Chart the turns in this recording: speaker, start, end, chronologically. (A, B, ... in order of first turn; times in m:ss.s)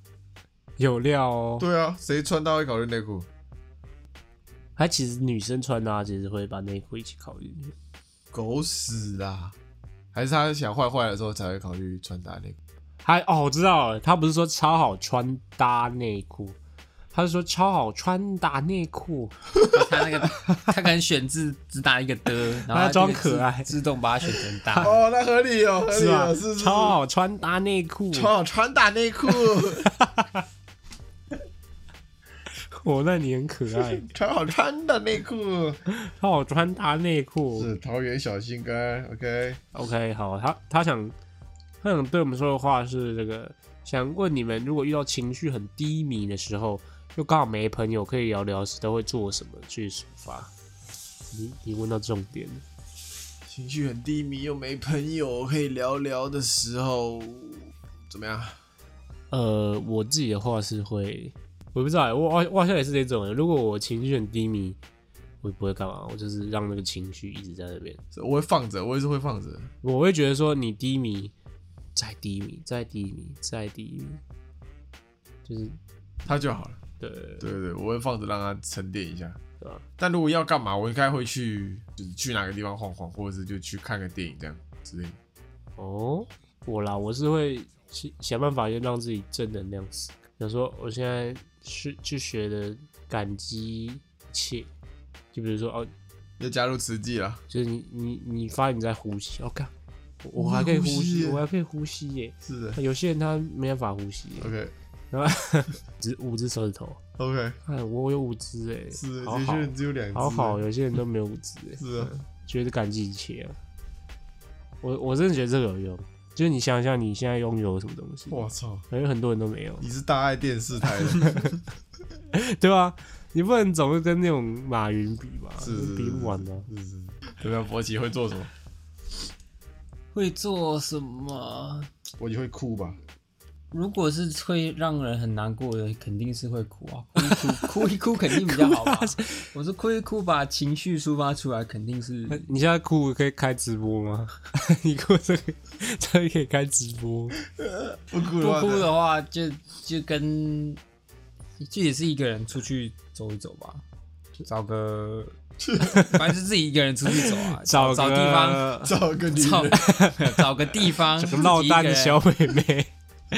0:00.8-0:01.7 A
0:01.6-0:03.3 B
0:04.8-0:07.7 A
0:08.3-0:09.6 B
0:10.1-0:12.6 B
0:13.0-0:16.6 A
0:17.1-0:19.4 A
0:19.7-0:24.9 C
0:22.7-0:23.7 A
0:24.8-0:27.0 B
0:25.9-0:28.3 A
0:28.1-0:29.9 B
0:29.5-0:30.4 A
0:32.6-0:34.1 A
0:34.0-0:35.8 B
0:35.9-0:37.7 A
0:37.6-0:39.6 B
0:39.7-0:41.2 A
0:41.8-0:50.5 A
0:51.3-0:52.6 A
0:53.5-0:58.6 B
0:59.3-1:04.8 A
1:05.4-1:08.0 A
1:08.1-1:09.7 B
1:09.8-1:11.3 A
1:12.0-1:14.2 A
1:15.4-1:15.8 A
1:16.2-1:16.8 B
1:17.0-1:17.5 A
1:17.4-1:19.4 B
1:20.0-1:25.2 B
1:25.8-1:34.7 A
1:35.3-1:35.9 A
1:36.4-1:37.4 B
1:37.5-1:39.7 A
1:40.2-1:44.5 A
1:40.4-1:41.4 B
1:42.4-1:42.8 B
1:44.4-1:44.7 B
1:45.1-1:47.0 A
1:47.2-1:47.6 B
1:47.6-1:53.6 A
1:48.9-1:50.6 B
1:51.8-1:52.2 B
1:54.8-1:59.8 A
1:58.3-1:58.9 B
1:59.8-2:01.6 B
2:01.2-2:01.6 A
2:02.3-2:06.7 A
2:05.6-2:08.5 B
2:10.1-2:11.9 C
2:12.2-2:13.0 B
2:13.7-2:22.5 C
2:17.2-2:17.6 A
2:18.4-2:19.4 A
2:22.3-2:27.4 A
2:27.6-2:28.9 B
2:28.4-2:30.8 C
2:31.6-2:33.8 C
2:34.4-2:38.7 C
2:35.6-2:36.1 B
2:35.9-2:36.2 A
2:37.2-2:39.0 A
2:38.8-2:39.8 B
2:39.3-2:42.2 C
2:39.8-2:42.9 A